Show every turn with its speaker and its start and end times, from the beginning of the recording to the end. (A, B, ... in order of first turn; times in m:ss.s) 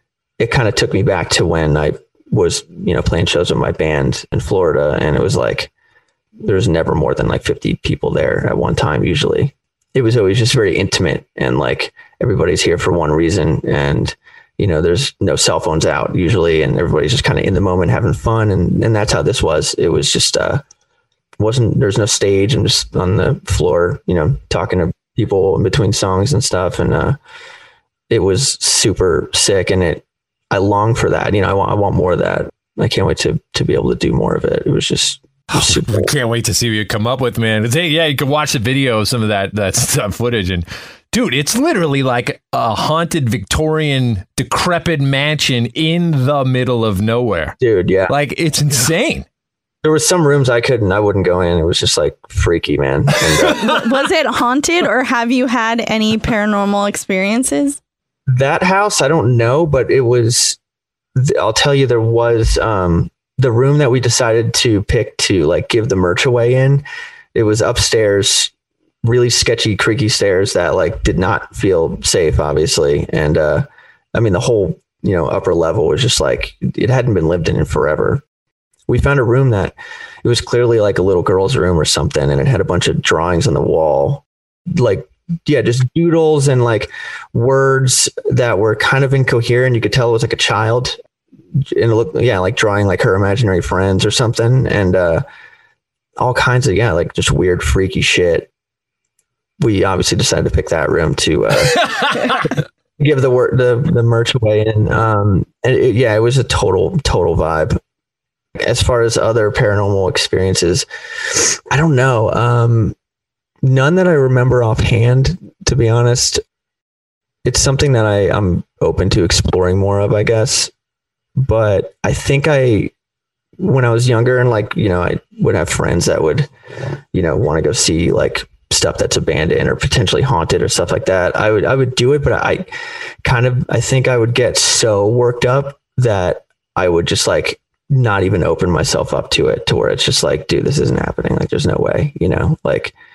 0:00.4-0:05.7 A
0:06.4-0:20.6 A
0:21.4-0:27.2 A
0:28.1-0:36.1 A
0:35.5-0:47.6 B
0:47.6-0:48.1 A
0:48.1-0:49.2 B
0:49.8-0:53.8 A
0:53.6-0:57.8 C
0:58.3-1:00.6 A
1:01.1-1:06.8 A
1:07.3-1:08.5 A
1:09.0-1:18.2 A
1:18.9-1:31.0 A
1:31.7-1:35.2 A
1:36.2-1:38.5 A
1:39.6-1:47.8 A
1:41.8-1:42.5 B
1:48.6-1:52.9 A
1:53.6-1:56.4 A
1:57.4-2:00.7 A
2:01.4-2:02.9 A
2:03.6-2:06.5 A
2:07.1-2:12.7 A
2:13.2-2:22.9 A